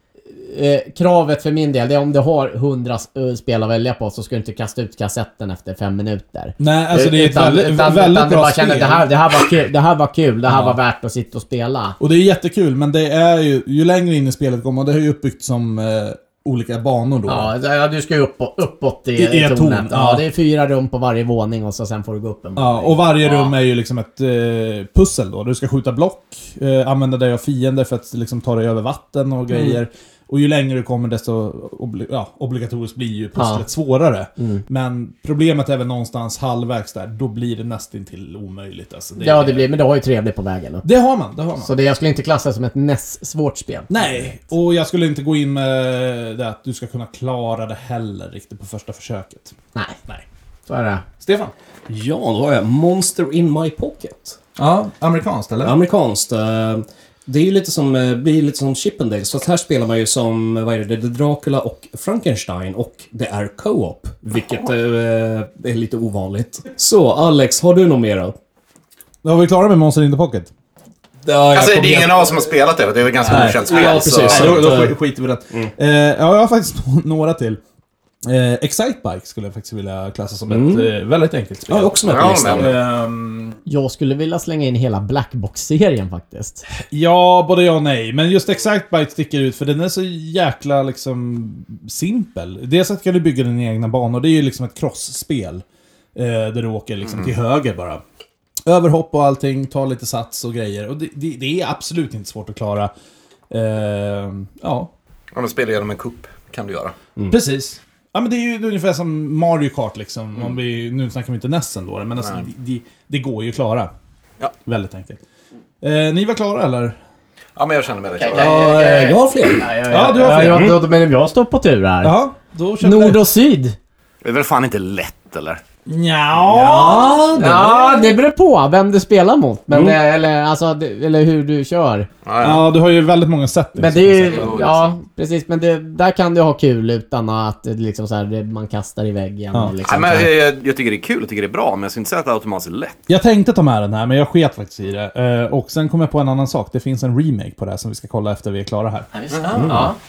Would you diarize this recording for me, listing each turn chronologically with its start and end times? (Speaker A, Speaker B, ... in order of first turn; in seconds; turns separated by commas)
Speaker A: 0.3-12.0, Speaker B: 6.6-9.1, Speaker B: 10.5-10.8, Speaker B: 12.0-17.5, Speaker A: 17.3-23.1, Speaker B: 19.2-20.2, Speaker B: 22.6-39.6, Speaker A: 33.4-33.6, Speaker A: 34.4-34.6, Speaker A: 39.2-40.9, Speaker B: 40.8-41.7, Speaker A: 41.6-44.3, Speaker B: 43.9-49.5, Speaker A: 50.7-51.0, Speaker B: 51.2-51.5, Speaker C: 51.9-54.4, Speaker B: 54.6-55.8, Speaker C: 55.6-68.3, Speaker B: 69.2-70.5, Speaker C: 71.2-72.3, Speaker D: 71.5-74.7, Speaker C: 73.3-75.0, Speaker B: 73.3-77.6, Speaker B: 78.2-83.6, Speaker C: 80.5-80.9, Speaker C: 81.7-82.7, Speaker D: 82.0-82.7, Speaker A: 83.7-86.7, Speaker B: 86.9-95.6, Speaker B: 96.2-98.0, Speaker B: 98.7-102.9, Speaker B: 103.5-104.9, Speaker D: 105.3-107.0, Speaker B: 107.3-113.9, Speaker B: 114.7-115.2, Speaker B: 115.8-117.0, Speaker D: 117.6-118.6, Speaker A: 118.2-122.2, Speaker C: 118.3-119.7, Speaker B: 119.9-120.8, Speaker B: 122.0-123.2, Speaker A: 122.8-123.8, Speaker D: 124.2-125.6, Speaker B: 125.9-127.2, Speaker C: 126.5-128.0, Speaker A: 127.3-132.1, Speaker C: 129.7-130.0, Speaker D: 132.3-132.7, Speaker B: 132.4-134.5, Speaker A: 133.8-140.3, Speaker D: 134.3-135.0, Speaker D: 139.8-143.0, Speaker B: 143.1-149.1, Speaker A: 149.1-150.0, Speaker D: 149.3-149.7, Speaker C: 149.6-149.9